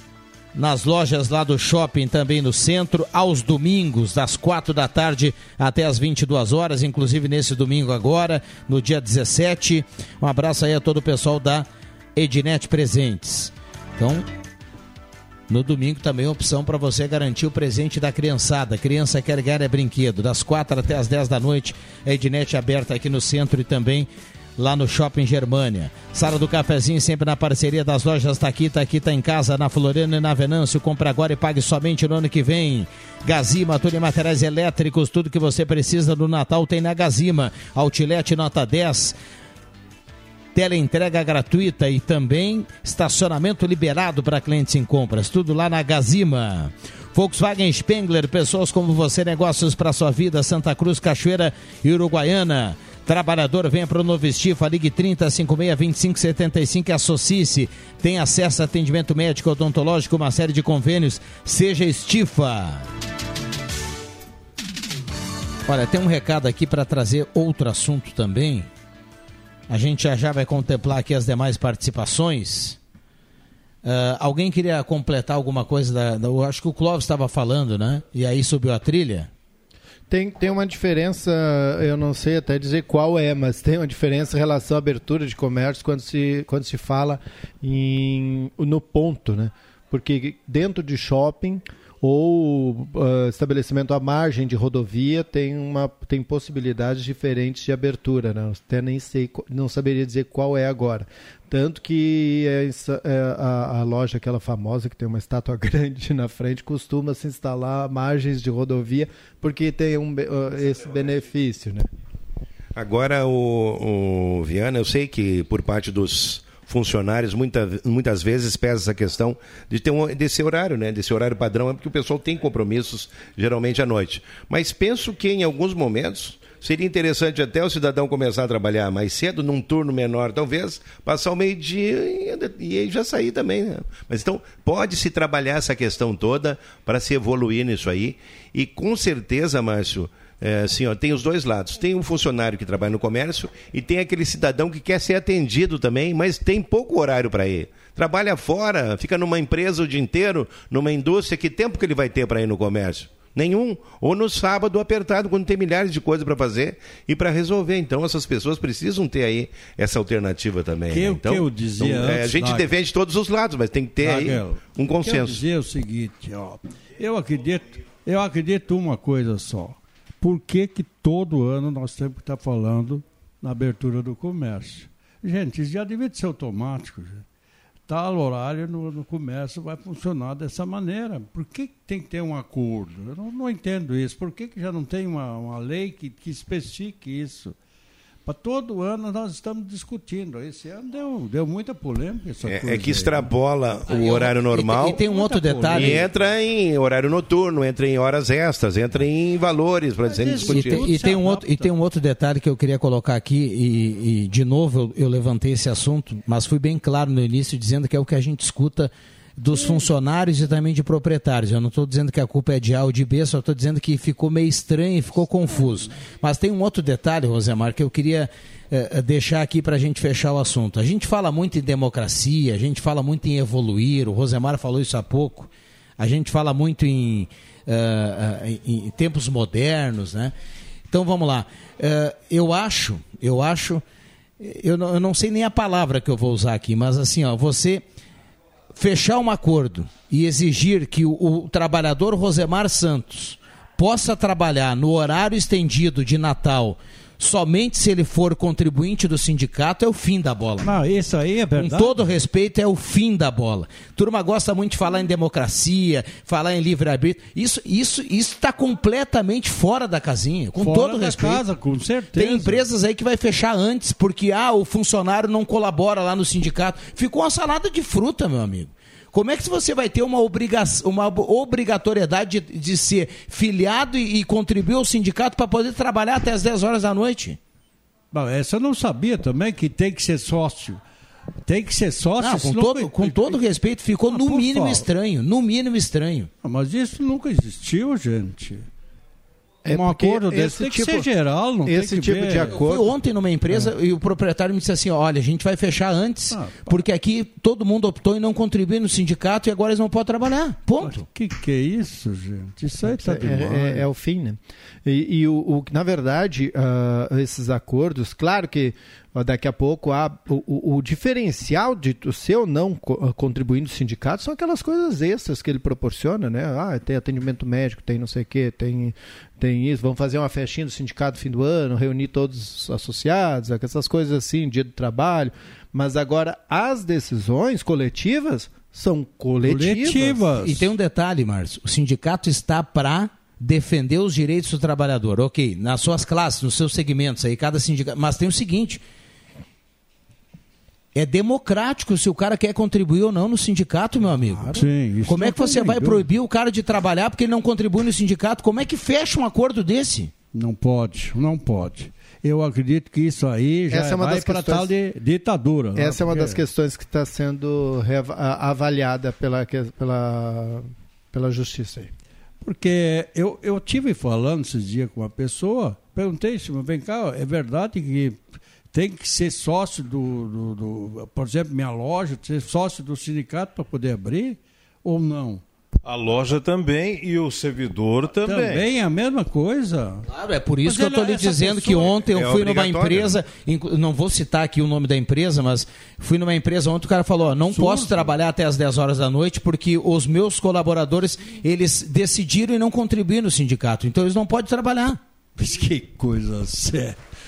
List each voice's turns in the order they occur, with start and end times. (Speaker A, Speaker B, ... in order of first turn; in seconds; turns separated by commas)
Speaker A: 0.5-14.2, Speaker A: 15.5-39.1, Speaker A: 40.5-62.9, Speaker A: 65.7-68.7, Speaker A: 69.7-72.8, Speaker A: 73.8-79.3, Speaker B: 80.1-111.9, Speaker C: 112.7-165.4, Speaker D: 160.9-162.7, Speaker D: 164.0-177.2, Speaker D: 177.9-187.5, Speaker D: 188.2-193.3, Speaker C: 192.4-195.0, Speaker A: 193.9-196.0, Speaker D: 193.9-196.1, Speaker C: 195.7-200.9, Speaker D: 200.1-201.7, Speaker A: 200.4-230.3, Speaker A: 230.9-233.8, Speaker A: 234.4-237.8, Speaker A: 238.7-250.7, Speaker D: 250.6-251.9, Speaker A: 251.5-261.4, Speaker D: 260.5-262.6, Speaker A: 262.1-277.4, Speaker D: 278.1-280.8, Speaker D: 281.4-283.4, Speaker A: 282.2-286.3, Speaker D: 284.1-284.9, Speaker D: 286.4-288.7, Speaker B: 289.6-291.1, Speaker D: 289.7-292.6, Speaker B: 291.6-292.9, Speaker A: 292.5-301.0, Speaker D: 296.3-296.8, Speaker D: 300.8-303.8, Speaker B: 302.8-330.2, Speaker D: 329.4-330.7, Speaker A: 330.4-338.8, Speaker A: 340.9-350.1, Speaker B: 344.0-344.6, Speaker D: 344.5-346.1, Speaker D: 350.3-356.4, Speaker B: 353.7-354.7, Speaker B: 355.8-361.9, Speaker D: 362.4-375.4, Speaker E: 375.8-378.6, Speaker D: 378.2-380.1, Speaker A: 380.1-395.0, Speaker D: 380.6-382.0, Speaker C: 382.1-383.2, Speaker D: 387.5-388.1, Speaker D: 395.4-397.0